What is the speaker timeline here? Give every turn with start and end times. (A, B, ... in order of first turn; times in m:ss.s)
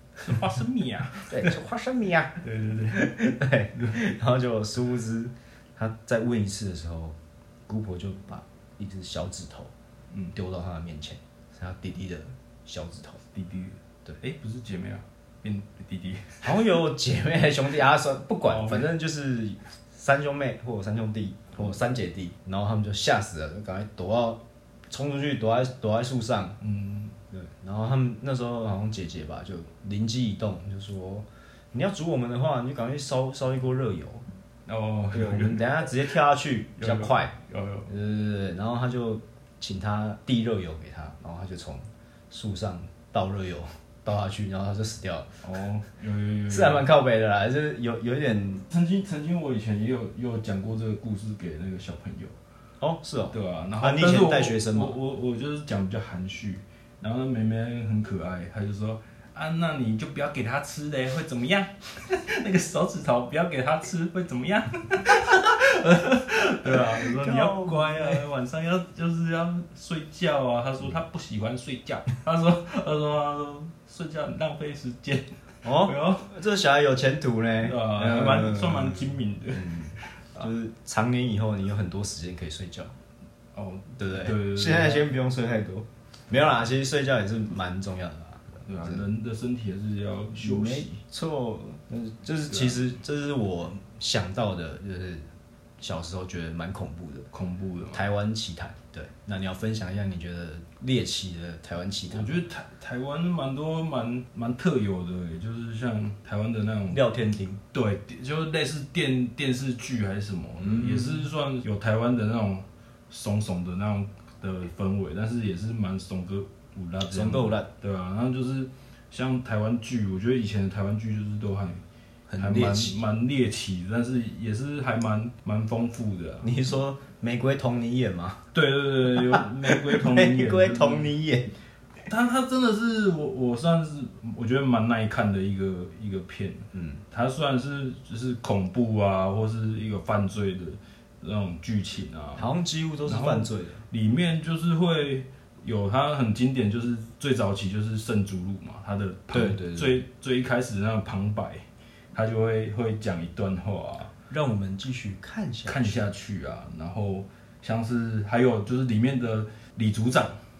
0:00.2-0:01.5 A
0:01.3-0:07.2 B
0:02.4-0:03.0 A
0:07.7-0:09.7 B
0:10.3-0:13.2 B
0:13.3-0:16.6 A
0:16.4-0:26.6 B
0:18.5-0:18.9 A
0:26.6-0:27.2 A
0:27.3-0:34.2 B
0:34.7-0:35.6 A
0:35.1-0:37.3 B
0:36.8-0:37.9 A
0:37.9-0:45.3 B
0:45.4-0:46.8 A
0:46.5-0:48.6 B
0:48.7-0:52.4 A
0:52.8-0:55.0 B
0:53.3-1:16.3 A
1:06.6-1:08.3 B
1:15.6-1:22.9 B
1:17.6-1:20.5 A
1:23.5-1:25.1 A
1:24.0-1:29.0 B
1:28.6-1:31.0 A
1:30.4-1:35.3 B
1:32.5-1:32.8 A
1:35.8-1:37.3 B
1:37.3-1:38.0 A
1:37.9-1:42.4 B
1:42.1-1:47.0 A
1:46.9-1:47.6 B
1:47.7-2:01.8 A
1:50.6-1:51.2 B
1:57.0-1:57.7 B
2:02.3-2:03.0 B
2:02.4-2:06.5 A
2:06.4-2:08.4 B
2:08.5-2:11.1 A
2:09.1-2:11.5 B
2:12.0-2:22.5 A
2:16.7-2:17.0 B
2:22.4-2:23.8 B
2:23.1-2:34.1 A
2:29.3-2:29.9 B
2:34.3-2:36.0 B
2:35.7-2:40.4 A